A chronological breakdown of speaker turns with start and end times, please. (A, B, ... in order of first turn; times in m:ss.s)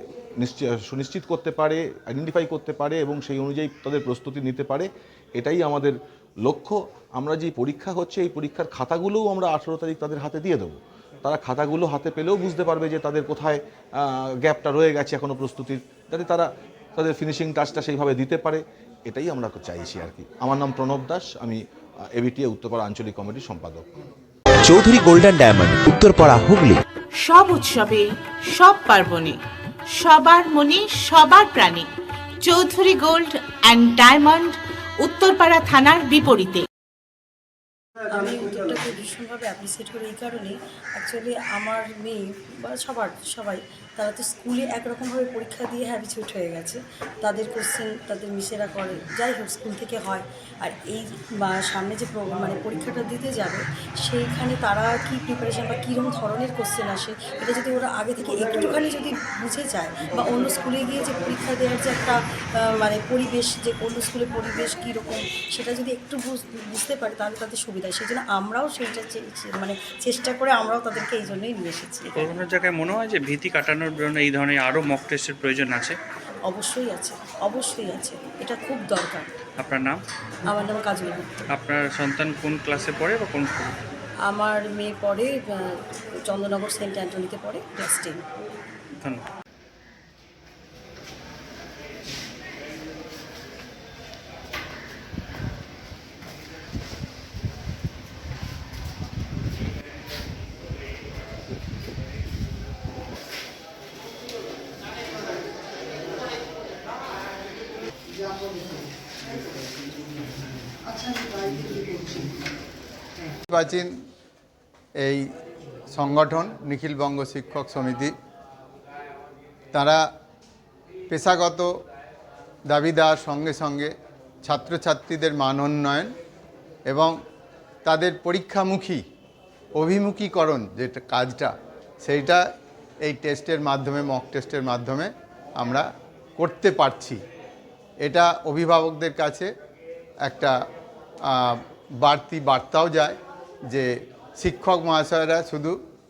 0:00.4-0:21.6 A
0:22.1-0:23.8 A
0:24.6-0:26.8 B
0:27.2-0:31.9 C
0:32.4-0:36.6 C
0:38.1-1:12.3 D
1:12.2-1:16.0 E
1:16.5-1:19.3 D
1:19.6-1:20.0 E
1:20.5-1:21.3 D
1:21.6-1:23.8 E
1:24.3-1:28.2 D
1:29.0-1:29.2 E
1:53.5-1:54.0 F
1:55.0-1:55.3 F
1:55.9-1:58.1 F
1:59.7-2:00.1 F
2:01.1-2:01.7 F
2:02.7-2:03.9 F
2:04.4-2:06.1 F
2:06.9-2:07.2 F
2:07.8-2:09.0 F
2:09.8-2:12.4 F
2:13.0-2:17.2 F
2:18.0-2:19.5 F
2:20.2-2:20.5 F
2:21.3-2:23.2 F
2:23.7-2:25.8 F